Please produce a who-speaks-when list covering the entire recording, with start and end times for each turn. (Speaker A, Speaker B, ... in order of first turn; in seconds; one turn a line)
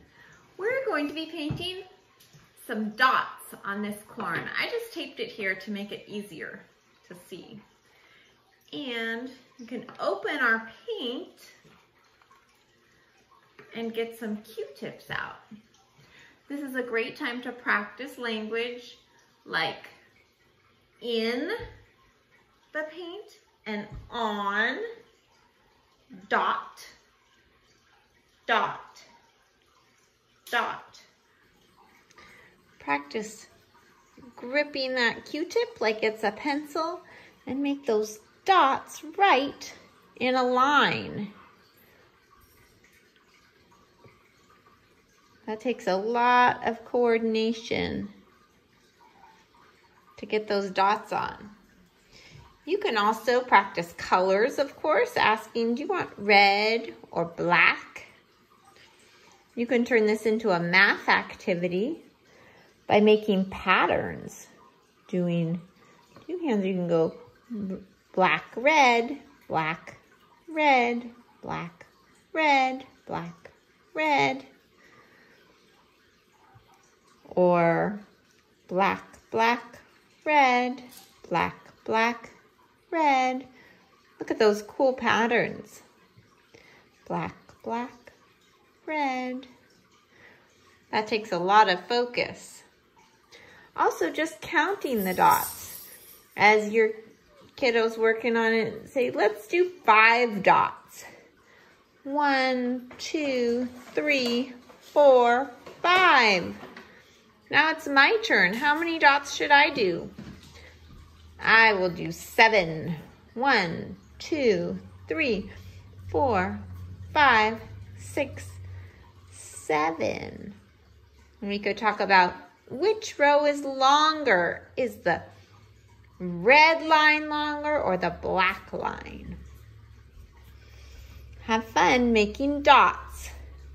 Speaker A: 0.6-1.9
Speaker A: 2.6-7.6
Speaker A: 8.7-11.6
Speaker A: 13.7-15.4
Speaker A: 16.5-20.0
Speaker A: 21.0-21.6
Speaker A: 22.7-24.8
Speaker A: 26.2-26.9
Speaker A: 28.5-29.1
Speaker A: 30.5-31.1
Speaker A: 32.8-33.5
Speaker A: 34.4-41.3
Speaker A: 45.5-48.1
Speaker A: 50.2-51.5
Speaker A: 52.7-58.1
Speaker A: 59.5-62.0
Speaker A: 62.9-64.5
Speaker A: 65.1-65.6
Speaker A: 66.3-74.5
Speaker A: 77.3-78.0
Speaker A: 78.7-82.4
Speaker A: 82.9-83.5
Speaker A: 84.2-85.8
Speaker A: 87.1-88.2
Speaker A: 88.8-89.5
Speaker A: 90.9-92.7
Speaker A: 93.8-95.8
Speaker A: 96.4-97.0
Speaker A: 97.6-101.1
Speaker A: 102.0-106.6
Speaker A: 107.5-110.1
Speaker A: 111.4-115.5
Speaker A: 116.1-118.6
Speaker A: 119.3-120.6
Speaker A: 121.4-125.2
Speaker A: 126.2-129.4
Speaker A: 131.4-133.3